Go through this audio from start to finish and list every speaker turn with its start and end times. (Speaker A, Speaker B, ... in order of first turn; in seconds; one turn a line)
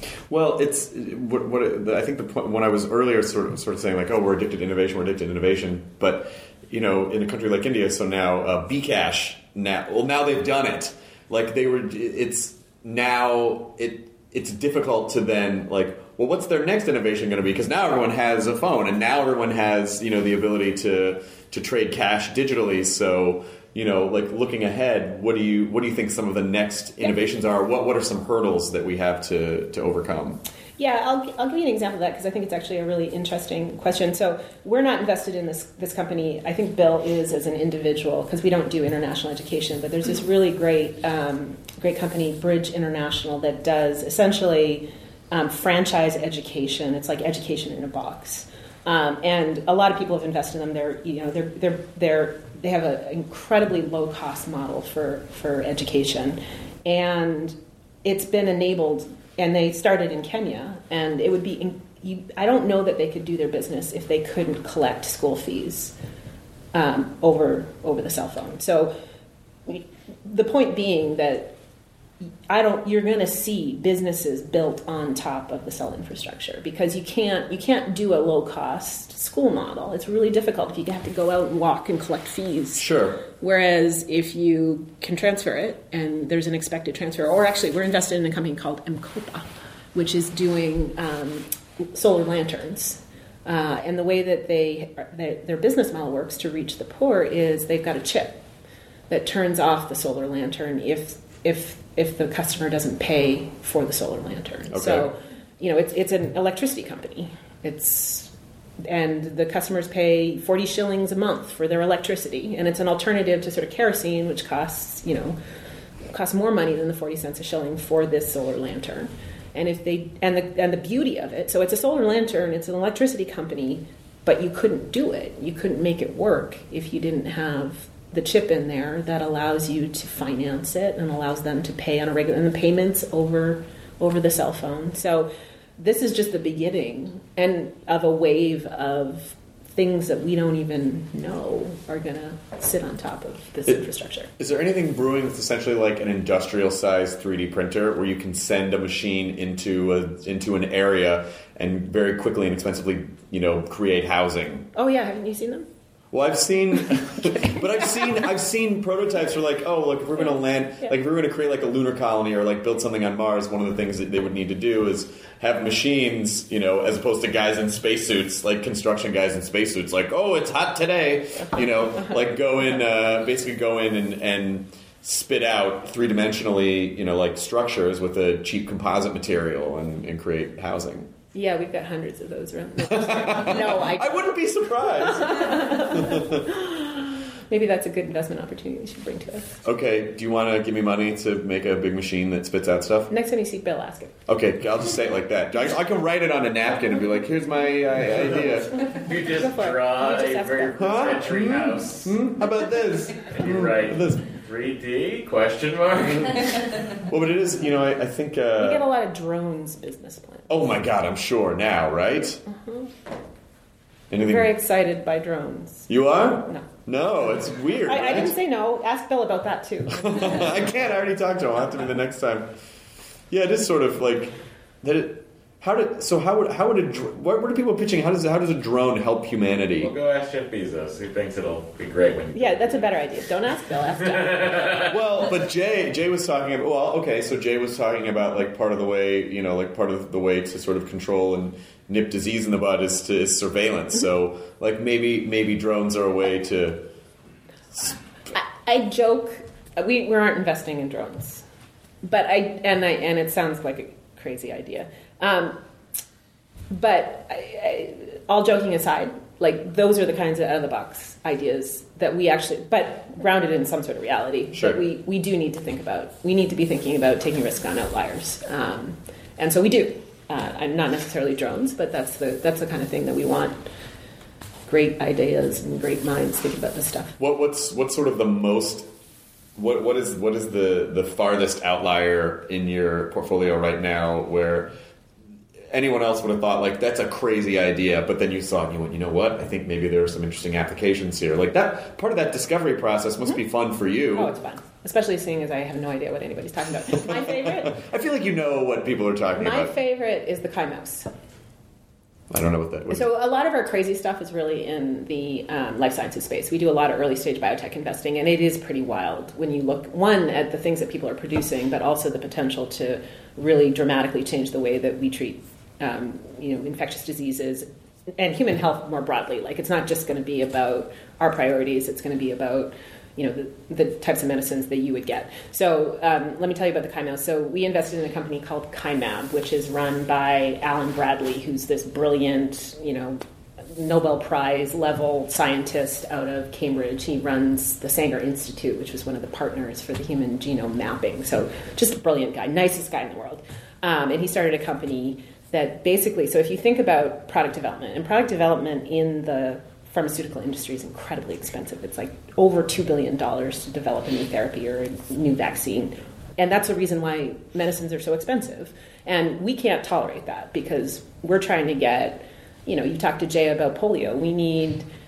Speaker A: 0.3-30.4
Speaker B: 30.8-66.0
Speaker B: 66.7-68.9
Speaker B: 69.7-71.6
Speaker B: 72.5-98.4
Speaker A: 82.8-83.2
Speaker B: 99.1-108.3
Speaker A: 104.7-105.1
Speaker B: 108.9-115.4
Speaker B: 116.1-144.3
Speaker A: 144.4-154.7
Speaker B: 154.7-155.7
Speaker A: 156.1-181.1
Speaker B: 156.9-158.3
Speaker B: 160.2-161.0
Speaker B: 172.0-172.2
Speaker B: 181.3-189.6
Speaker A: 182.8-186.4
Speaker A: 189.6-193.1
Speaker B: 193.1-194.2
Speaker A: 194.3-198.7
Speaker C: 199.0-202.2
Speaker B: 199.3-201.1
Speaker A: 200.8-204.3
Speaker C: 203.3-206.7
Speaker A: 207.0-208.9
Speaker B: 208.6-210.5
Speaker A: 210.5-212.4
Speaker B: 212.5-212.9
Speaker A: 214.1-214.5
Speaker B: 214.2-216.7
Speaker A: 215.9-218.4
Speaker B: 217.8-220.6
Speaker A: 219.9-222.5
Speaker A: 223.3-229.9
Speaker C: 229.8-233.0
Speaker B: 232.3-234.6
Speaker C: 234.1-234.9
Speaker A: 234.8-246.9
Speaker B: 248.3-251.4
Speaker B: 252.0-255.6
Speaker B: 256.7-273.6
Speaker A: 264.5-264.8
Speaker B: 274.7-277.2
Speaker A: 277.2-278.9
Speaker A: 279.6-284.7
Speaker A: 285.7-294.3
Speaker B: 294.1-297.8
Speaker A: 297.1-299.7
Speaker B: 299.4-301.1
Speaker A: 302.3-303.1
Speaker B: 302.9-364.9